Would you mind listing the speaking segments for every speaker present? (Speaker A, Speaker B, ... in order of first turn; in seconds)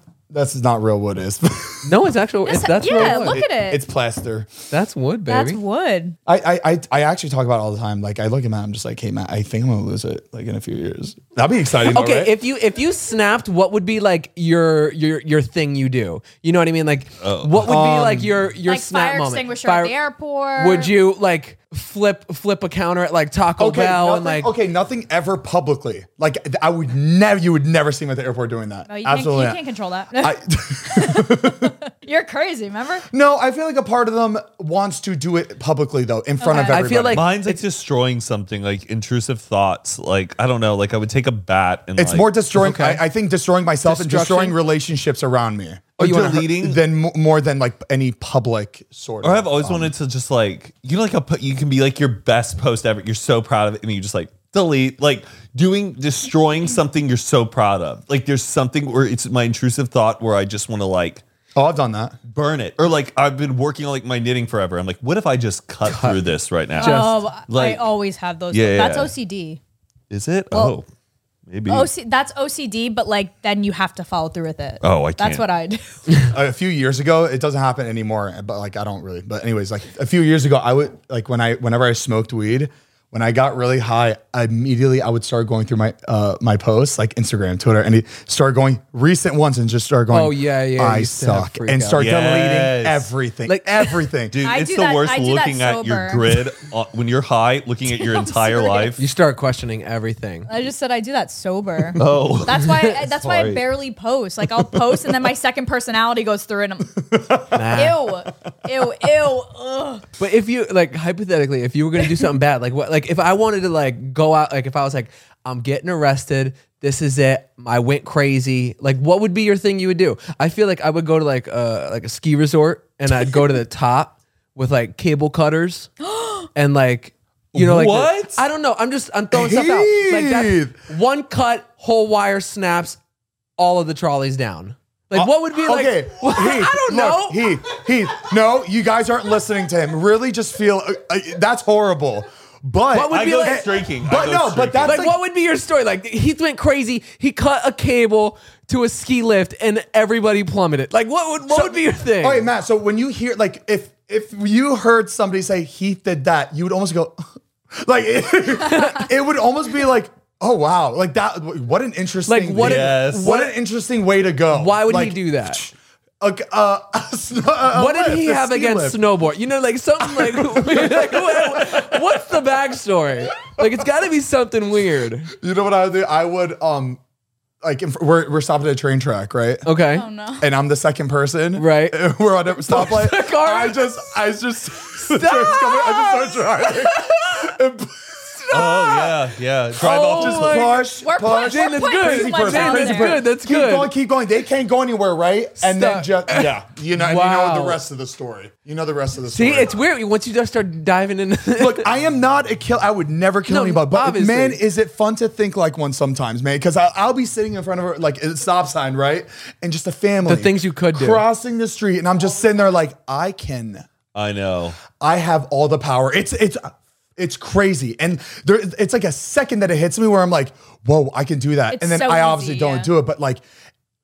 Speaker A: 0.3-1.9, 3.0-4.5, 6.3-12.3, 17.6-18.4, 23.6-29.6, 30.2-31.7, 33.1-37.2, 42.0-49.9, 61.5-62.2, 76.3-94.3, 107.0-107.6, 129.3-130.8, 135.1-145.2, 151.5-169.0, 170.1-172.0, 175.3-177.0, 177.6-179.7, 180.4-189.0, 190.1-199.8, 201.6-213.8, 214.9-223.4
Speaker B: 1.8-3.4, 4.7-5.6, 11.8-19.9, 20.6-24.5, 36.6-37.6, 42.5-43.0, 43.8-44.6, 65.8-66.2, 66.8-67.2, 90.1-92.1, 93.5-94.1, 99.0-100.5, 107.5-108.1, 110.2-125.9, 126.5-133.0, 133.6-137.6, 142.9-143.7, 144.8-152.5, 158.7-159.1, 162.3-163.6, 164.5-165.6, 167.7-175.3, 179.7-180.1, 181.6-182.0, 182.7-184.1, 185.1-186.2, 189.8-193.9, 195.6-197.8, 199.3-201.9, 203.5-204.6, 210.3-211.2
Speaker C: 2.5-3.8, 5.3-6.2, 18.6-20.9, 28.9-33.1, 36.4-36.8, 66.8-69.6, 70.5-70.8, 71.7-76.0, 94.4-96.3, 97.9-98.9, 100.5-107.1, 107.7-110.1, 126.0-126.5, 179.9-180.5, 191.0-193.2, 221.7-222.9
Speaker D: 17.2-17.9, 37.1-42.3, 46.0-46.8, 49.2-61.2, 62.3-67.9, 68.5-69.1, 70.1-70.9, 71.5-71.9, 74.8-75.5, 92.0-93.1, 94.3-99.0, 102.0-103.6, 127.5-128.4, 143.1-145.1, 162.6-163.3, 188.5-190.7, 214.2-214.8